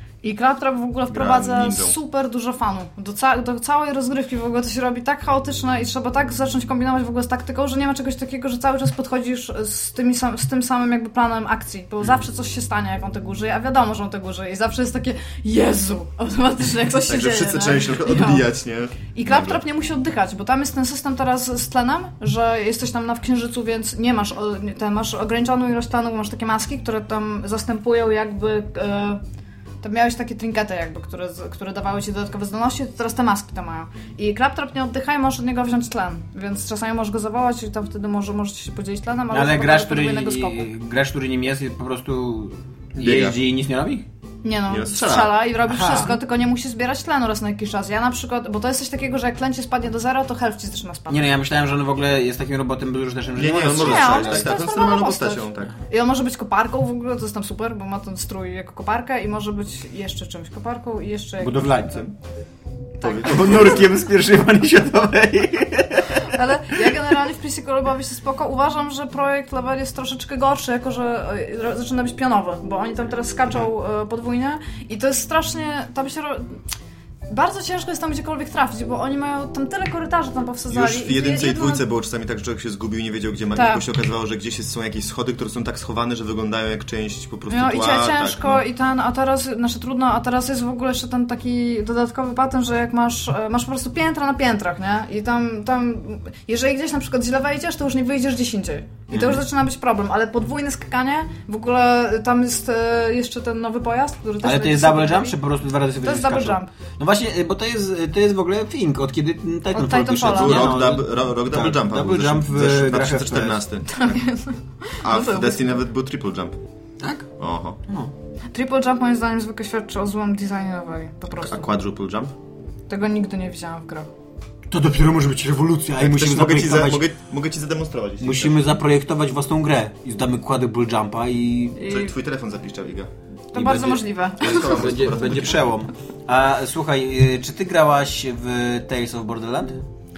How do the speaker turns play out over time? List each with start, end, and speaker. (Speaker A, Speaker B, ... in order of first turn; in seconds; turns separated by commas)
Speaker A: 0.2-18.5, Speaker B: 1.1-2.0, Speaker B: 17.1-19.6, Speaker A: 19.1-29.2, Speaker A: 29.8-40.7, Speaker C: 39.3-44.0, Speaker B: 43.0-43.4, Speaker A: 44.4-51.3, Speaker B: 44.7-45.4, Speaker C: 45.7-46.1, Speaker C: 51.1-54.5, Speaker B: 53.4-55.7, Speaker A: 53.7-62.1, Speaker C: 61.4-62.1, Speaker A: 63.0-63.8, Speaker B: 63.0-63.9, Speaker C: 63.2-66.9, Speaker A: 66.2-76.6, Speaker A: 77.3-81.8, Speaker B: 80.7-88.7, Speaker A: 83.5-83.8, Speaker A: 87.5-105.4, Speaker C: 99.1-99.4, Speaker C: 104.4-113.6, Speaker A: 106.0-106.7, Speaker A: 109.7-110.8, Speaker B: 110.1-114.2, Speaker A: 113.9-115.8, Speaker B: 115.0-116.6, Speaker C: 117.0-117.3, Speaker B: 117.4-117.8, Speaker A: 118.5-121.7, Speaker B: 121.4-122.3, Speaker A: 122.9-124.1, Speaker C: 124.7-127.1, Speaker B: 126.0-128.7, Speaker C: 128.2-131.8, Speaker A: 131.8-132.1, Speaker B: 131.8-133.1, Speaker A: 133.5-134.8, Speaker C: 133.5-139.8, Speaker B: 134.4-135.7